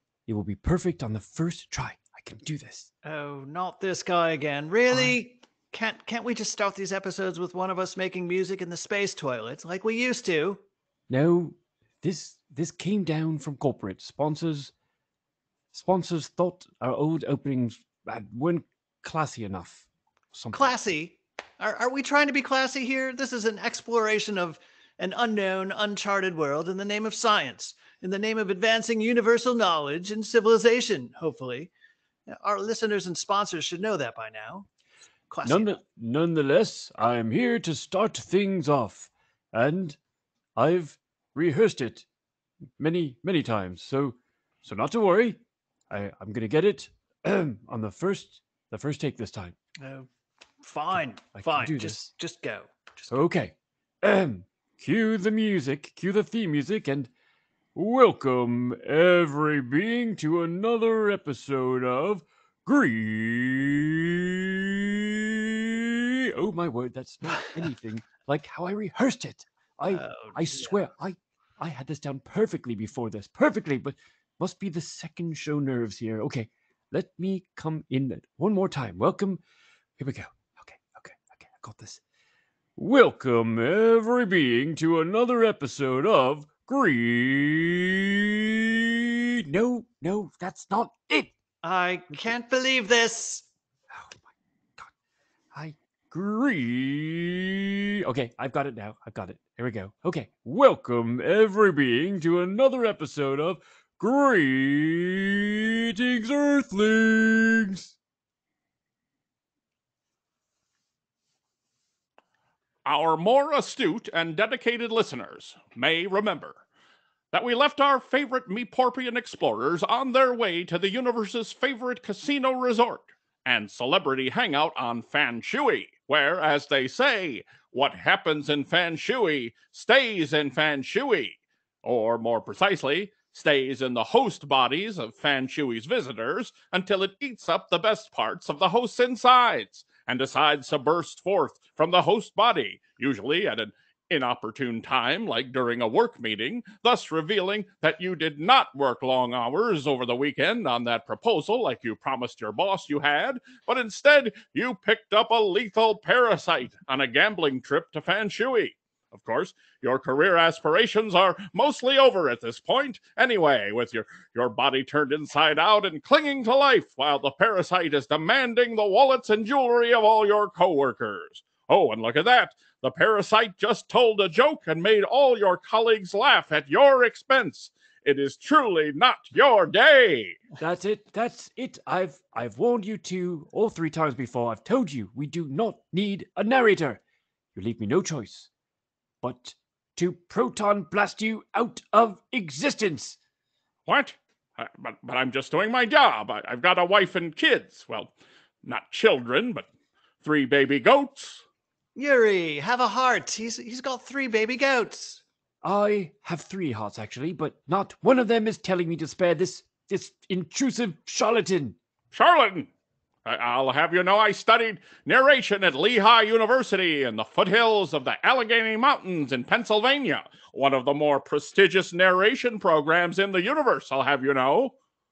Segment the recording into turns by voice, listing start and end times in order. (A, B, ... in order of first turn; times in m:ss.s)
0:00.3-0:02.9 A
0:03.0-0:10.6 B
0:11.1-0:14.7 A
0:15.7-0:20.7 A
0:20.5-0:31.7 B
0:32.3-0:34.7 B
0:35.3-0:35.8 B
0:35.4-0:40.0 A
0:40.6-0:42.0 A
0:42.8-0:45.4 A
0:45.9-0:49.5 A
0:49.8-0:50.1 B
0:50.6-0:53.2 B
0:51.3-0:52.0 A
0:53.1-0:57.1 A
0:57.7-1:19.4 A
1:09.9-1:10.8 B
1:20.0-1:22.0 A
1:22.8-1:31.3 A
1:31.6-1:33.4 B
1:33.9-1:34.9 A
1:35.5-1:48.0 A
1:52.8-1:56.6 C
1:57.3-3:00.4 C
3:00.6-3:07.0 A
3:07.5-3:08.5 A
3:09.2-3:13.2 A
3:13.8-3:19.7 C
3:20.2-3:21.4 C
3:22.0-3:25.2 B
3:25.6-3:31.8 A
3:32.1-3:32.7 C
3:33.2-3:44.7 C